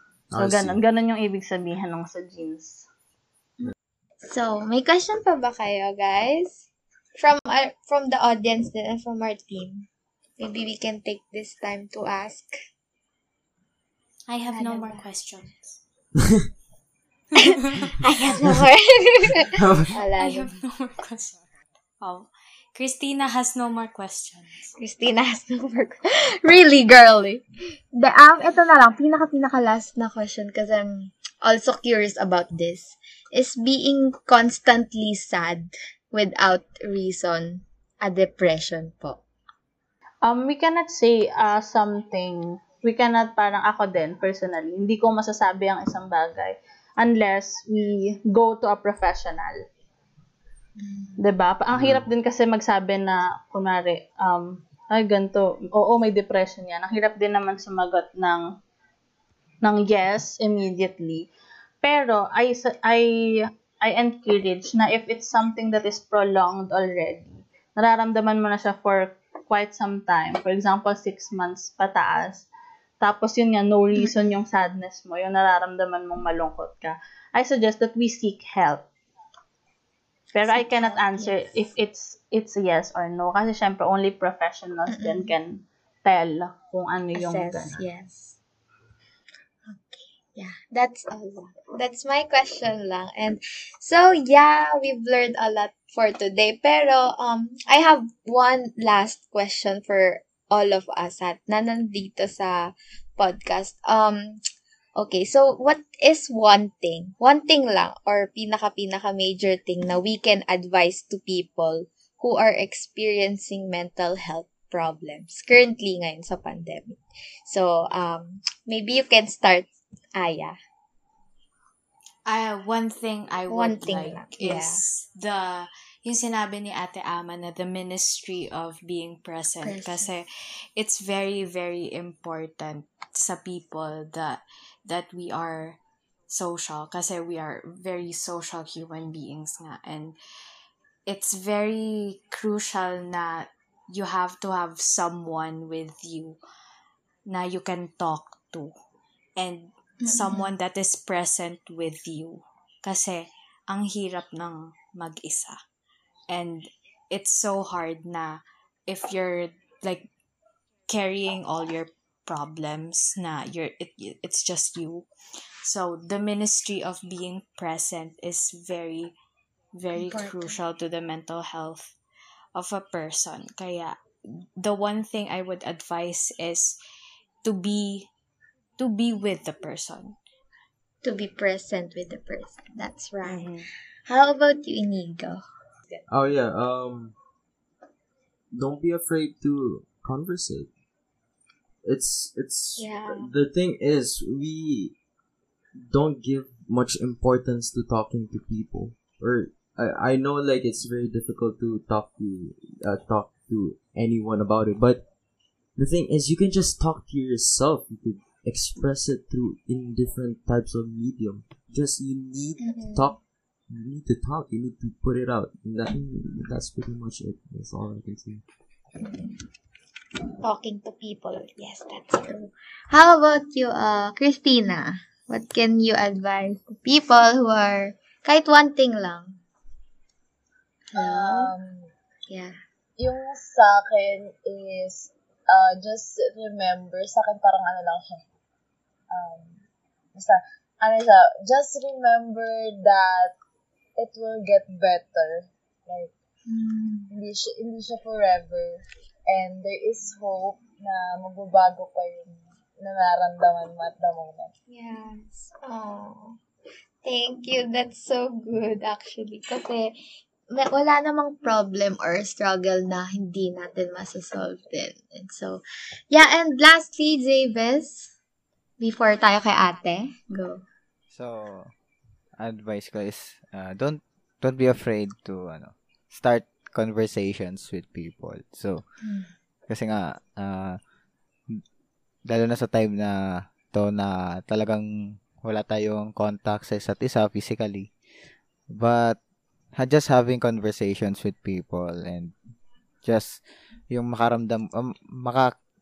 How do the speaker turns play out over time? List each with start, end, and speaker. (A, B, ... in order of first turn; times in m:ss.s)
0:00.3-0:00.8 A
0:00.3-0:02.8 B
0:04.2-0:09.9 C
0:10.4-0:12.5 C
0:14.3-0:15.8 D
0:14.5-0:15.1 C
0:17.5-0:20.5 C
0:19.5-0:19.9 A
0:20.2-0:21.4 D
0:22.0-0:24.7 D
0:24.8-0:39.2 C
0:40.2-0:49.6 B
0:50.8-0:51.2 C
0:51.2-0:58.4 B
0:51.7-0:52.0 A
0:59.6-1:01.3 B
1:01.8-1:12.4 B
1:13.0-1:18.8 B
1:20.3-1:27.8 B
1:20.4-1:21.4 C
1:24.9-1:25.3 C
1:27.1-1:28.4 C
1:29.7-1:44.4 C
1:45.0-2:00.6 C
2:02.2-2:20.2 D
2:03.5-2:04.8 C
2:09.6-2:10.1 C
2:21.1-2:26.4 D
2:27.2-2:28.7 D
2:29.4-2:35.6 D
2:30.0-2:30.5 C
2:36.3-2:40.1 D
2:40.9-2:45.1 D
2:45.6-2:49.1 D
2:49.7-2:52.0 D
2:49.9-2:50.6 C
2:52.5-2:56.8 D
2:57.4-2:58.1 D
2:58.8-3:00.2 D
3:01.0-3:03.5 C
3:03.2-3:03.7 D
3:04.1-3:05.4 C
3:06.1-3:07.1 A
3:08.5-3:10.7 A
3:11.8-3:15.0 A
3:12.8-3:13.3 C
3:15.8-3:25.0 A
3:25.8-3:33.2 A
3:32.6-3:33.2 C
3:33.7-3:38.4 A
3:39.0-3:39.3 C
3:40.4-3:49.4 C
3:50.9-3:51.5 C
3:50.9-3:51.9 E
3:52.3-3:52.6 C
3:53.0-3:58.2 E
3:59.1-3:59.6 E
4:00.1-4:03.3 E
4:04.0-4:06.1 E
4:06.5-4:07.1 C
4:07.1-4:14.5 E
4:14.7-4:16.4 C
4:17.0-4:19.9 C
4:20.5-4:28.1 C
4:28.8-4:30.6 C
4:31.1-4:31.7 F
4:32.4-4:38.8 F
4:39.0-4:39.3 C
4:39.7-4:40.8 F
4:42.3-4:44.8 F
4:45.4-4:47.9 F
4:48.7-4:49.2 F
4:49.8-4:52.3 F
4:53.0-4:53.4 F
4:53.9-4:55.5 F